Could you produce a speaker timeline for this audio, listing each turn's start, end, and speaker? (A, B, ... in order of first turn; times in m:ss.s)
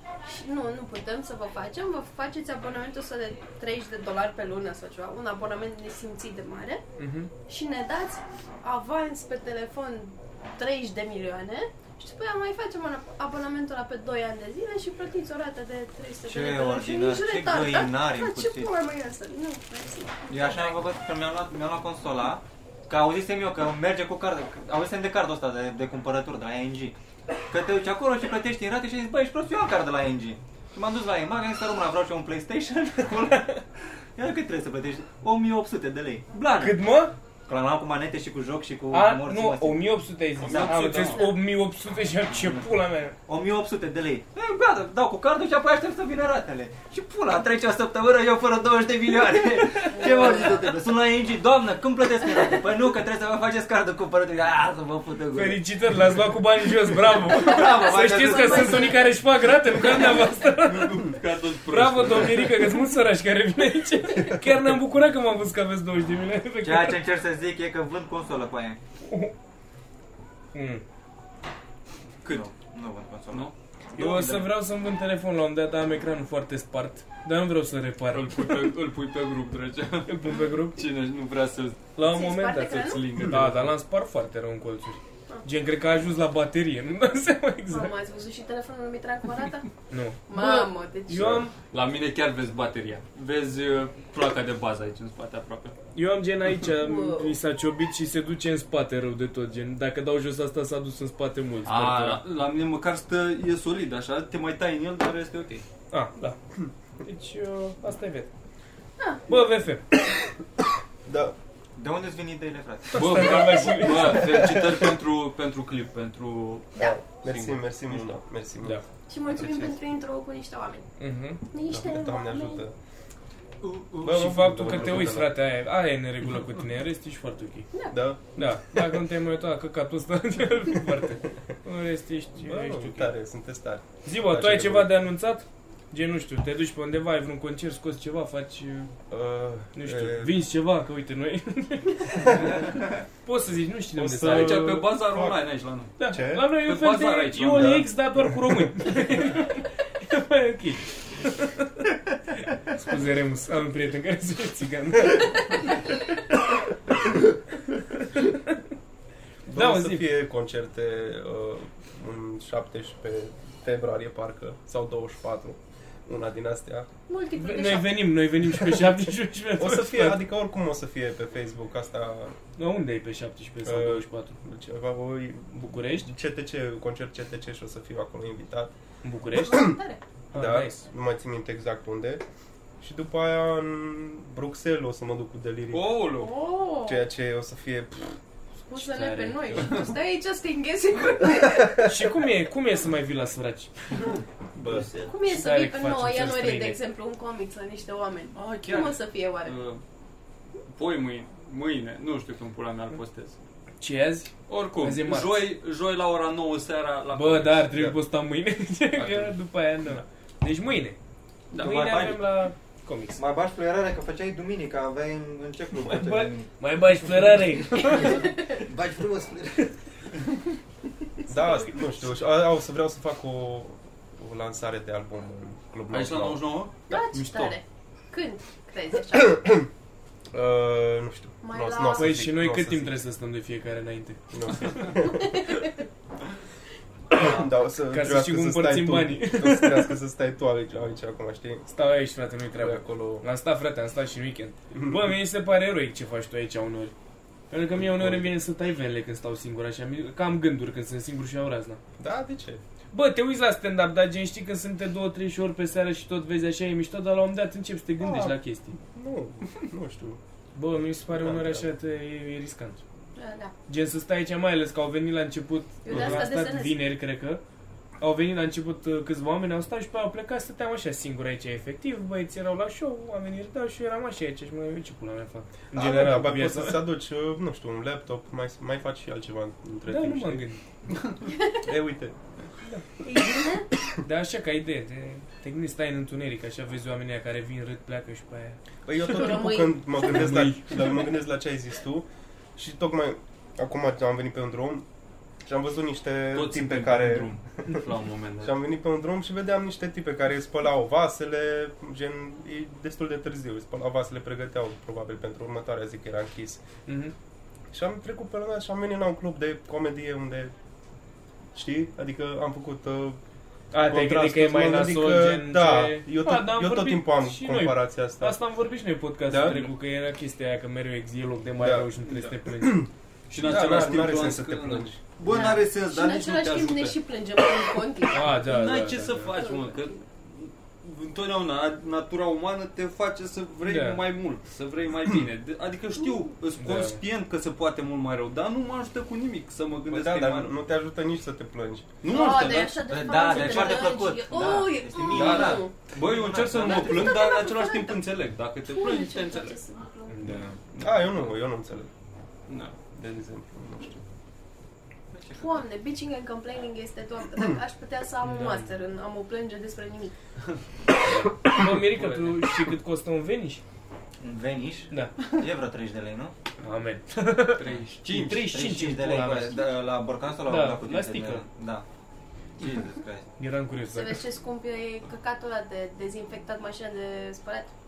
0:00.2-0:06.8 A
0:07.0-0:07.3 B
0:07.5-0:20.8 A
0:16.2-0:18.7 C
0:20.3-0:27.0 C
0:27.5-0:33.6 C
0:34.2-0:36.8 C
0:36.6-0:37.1 B
0:37.5-0:39.8 C
0:38.9-0:43.1 B
0:40.4-0:41.3 D
0:40.4-0:41.3 C
0:42.3-0:42.7 C
0:43.3-0:55.6 C
0:49.9-0:50.7 A
0:55.3-1:01.1 B
0:57.3-0:59.2 A
0:57.4-0:59.0 C
0:59.9-1:00.3 A
1:00.6-1:02.7 D
1:01.7-1:07.0 B
1:06.6-1:08.8 C
1:09.0-1:09.3 B
1:10.5-1:10.8 B
1:12.2-1:14.4 C
1:13.3-1:14.4 D
1:13.9-1:18.7 B
1:18.1-1:21.8 D
1:20.1-1:20.8 B
1:22.0-1:27.9 B
1:22.0-1:23.2 A
1:23.0-1:23.7 D
1:27.7-1:29.7 A
1:29.9-1:31.5 B
1:30.3-1:31.4 A
1:31.1-1:31.4 E
1:31.7-1:35.8 D
1:36.0-1:42.2 B
1:36.7-1:37.4 A
1:41.7-1:45.6 D
1:45.9-1:46.4 B
1:47.0-1:48.3 B
1:49.0-1:49.2 A
1:49.3-1:49.8 B
1:51.1-1:51.4 E
1:51.8-1:53.6 C
1:52.9-1:54.5 B
1:52.9-1:58.1 D
1:54.2-1:54.9 E
1:56.8-1:59.7 E
1:59.1-2:00.9 A
2:01.0-2:01.4 B
2:01.5-2:02.6 A
2:01.7-2:02.7 E
2:03.6-2:04.0 C
2:04.0-2:05.4 E
2:04.0-2:07.7 B
2:07.7-2:08.0 A
2:07.9-2:08.2 E
2:08.4-2:13.1 B
2:12.4-2:15.0 E
2:14.0-2:18.9 B
2:19.1-2:20.4 E
2:19.7-2:22.6 B
2:23.2-2:24.8 B
2:24.0-2:25.4 E
2:24.2-2:27.8 D
2:26.0-2:31.7 B
2:26.1-2:26.6 E
2:27.5-2:28.9 E
2:32.7-2:35.6 B
2:39.5-2:46.9 E
2:39.5-2:40.1 B
2:47.1-2:48.2 A
2:47.4-2:50.3 B
2:48.4-2:52.4 E
2:52.6-2:54.4 B
2:53.6-2:58.7 E
2:55.5-2:56.1 B
2:59.0-2:59.7 B
2:59.4-3:00.0 A
2:59.5-2:59.8 E
3:00.3-3:00.8 B
3:00.3-3:02.2 E
3:02.8-3:06.0 E
3:05.7-3:06.3 D
3:06.2-3:07.0 A
3:06.8-3:08.2 E
3:08.7-3:11.9 A
3:08.8-3:09.7 B
3:09.5-3:09.8 D
3:11.8-3:13.7 B
3:14.6-3:14.9 E
3:15.1-3:19.6 A
3:15.3-3:16.8 B
3:18.4-3:19.8 D
3:20.7-3:23.4 D
3:23.8-3:25.5 B
3:24.5-3:27.8 D
3:27.1-3:31.0 B
3:29.0-3:30.0 D
3:31.5-3:32.2 D
3:31.6-3:32.2 C
3:31.6-3:33.2 B
3:33.2-3:36.5 C
3:35.8-3:38.4 B
3:37.9-3:39.7 C
3:41.3-3:41.8 B
3:41.3-3:46.5 E
3:45.9-3:47.6 D
3:46.9-3:49.4 A
3:49.1-3:49.7 E
3:50.3-3:53.0 E
3:51.4-3:52.2 A
3:52.0-3:54.9 B
3:54.3-3:55.2 E
3:55.0-3:55.6 A
3:57.1-4:01.7 E
3:57.9-3:59.9 B
4:01.7-4:06.9 B
4:02.6-4:03.2 E
4:04.7-4:05.0 E
4:07.5-4:11.8 B
4:07.7-4:08.3 E
4:12.0-4:12.6 E
4:12.9-4:18.8 B
4:18.0-4:18.4 E
4:18.9-4:20.2 E
4:20.6-4:22.8 B
4:21.1-4:21.7 E
4:23.2-4:23.5 A
4:23.7-4:27.4 B
4:25.8-4:26.8 A
4:25.9-4:26.3 E
4:28.0-4:36.8 B
4:35.7-4:40.4 E
4:39.9-4:40.6 B
4:41.3-4:41.6 A
4:41.6-4:42.2 E
4:43.0-4:43.7 A
4:44.0-4:48.6 B
4:48.9-4:54.9 E
4:49.0-4:50.9 A
4:50.0-4:50.7 B
4:55.4-4:57.8 E
4:56.3-4:58.5 D
4:58.4-5:06.6 E
5:06.9-5:07.1 B
5:07.7-5:10.5 E
5:11.5-5:13.2 E
5:13.7-5:22.8 B
5:13.9-5:18.4 E
5:19.3-5:19.7 E
5:21.6-5:25.0 E
5:23.3-5:27.0 D
5:25.2-5:28.3 A
5:28.1-5:29.3 B
5:28.4-5:40.5 D
5:29.3-5:30.0 A
5:33.6-5:34.0 B
5:36.6-5:37.0 B
5:39.9-5:41.9 E
5:42.0-5:43.8 D
5:42.1-5:45.7 A
5:42.8-5:47.2 C
5:45.0-5:49.6 D
5:46.6-5:48.0 A
5:48.7-5:50.2 A
5:50.1-5:50.6 B
5:50.7-5:51.3 D
5:50.8-5:51.9 E
5:52.5-5:52.8 D
5:52.9-5:54.0 E
5:55.1-5:55.6 C
5:55.4-6:00.1 A
5:58.2-5:58.7 B
6:01.1-6:03.6 B
6:01.9-6:02.4 D
6:04.2-6:06.3 C
6:06.6-6:09.7 B
6:07.6-6:08.5 D
6:07.6-6:11.8 C
6:10.5-6:11.4 B
6:12.6-6:13.3 C
6:13.4-6:14.3 B
6:13.9-6:17.7 A